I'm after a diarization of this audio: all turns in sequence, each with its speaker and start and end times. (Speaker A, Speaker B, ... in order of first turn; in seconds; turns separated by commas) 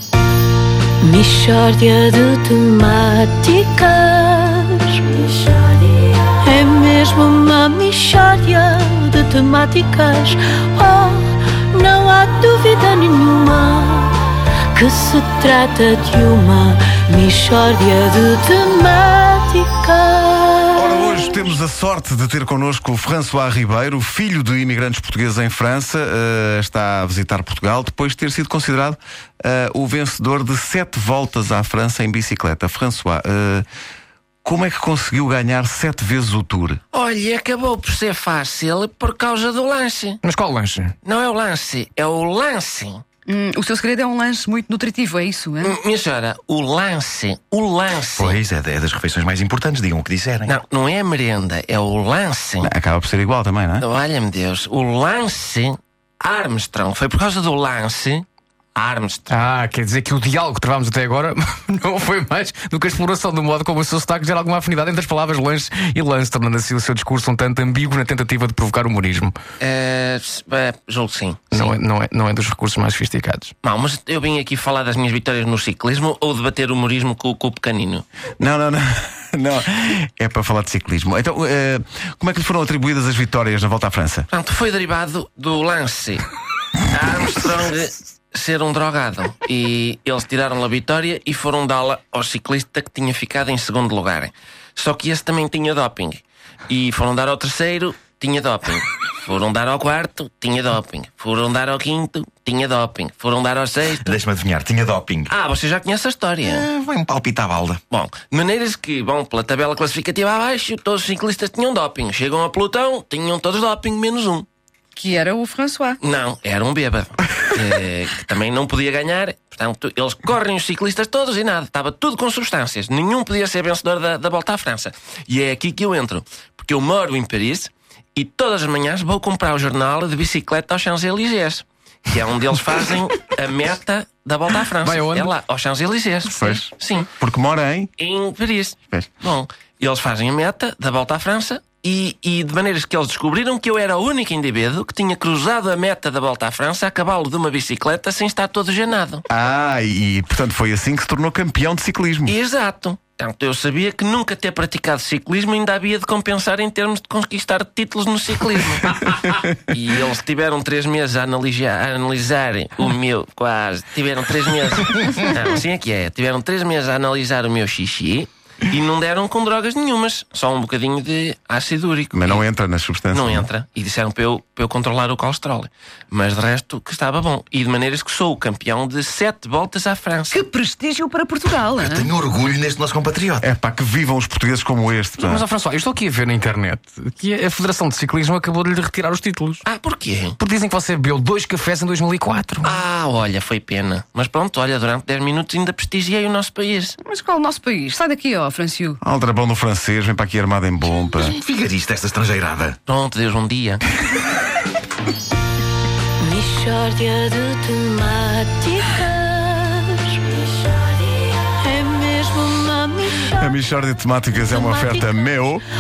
Speaker A: 1.0-14.2, Speaker A: 14.8-21.2, Speaker B: 20.8-33.7, Speaker B: 34.5-36.8, Speaker C: 36.9-40.2, Speaker D: 40.2-41.0, Speaker C: 41.0-43.0, Speaker E: 43.3-45.8, Speaker C: 45.6-48.4, Speaker F: 48.2-50.5, Speaker C: 50.5-52.7, Speaker B: 52.6-53.9, Speaker C: 53.8-59.3, Speaker D: 59.3-69.4, Speaker C: 69.6-71.7, Speaker D: 71.5-73.5, Speaker C: 73.6-78.0, Speaker B: 78.4-84.3, Speaker C: 84.3-86.3, Speaker C: 86.9-104.2, Speaker F: 104.0-105.3, Speaker C: 105.3-106.7, Speaker F: 106.4-107.8, Speaker C: 107.9-114.5, Speaker E: 115.0-116.0, Speaker C: 116.0-137.1, Speaker D: 134.8-135.3, Speaker B: 136.3-137.9, Speaker C: 138.0-149.2, Speaker B: 149.3-152.3, Speaker C: 152.3-172.4, Speaker B: 172.1-173.5, Speaker C: 173.1-180.4, Speaker E: 180.3-182.1, Speaker F: 181.7-183.5, Speaker B: 183.4-185.4, Speaker D: 185.2-189.6, Speaker C: 189.7-190.4, Speaker D: 190.4-192.8, Speaker C: 192.6-197.0, Speaker E: 197.0-199.0, Speaker B: 199.0-201.4, Speaker F: 201.2-202.8, Speaker C: 202.9-203.8, Speaker A: 206.2-213.5, Speaker B: 213.3-215.6, Speaker A: 214.5-215.3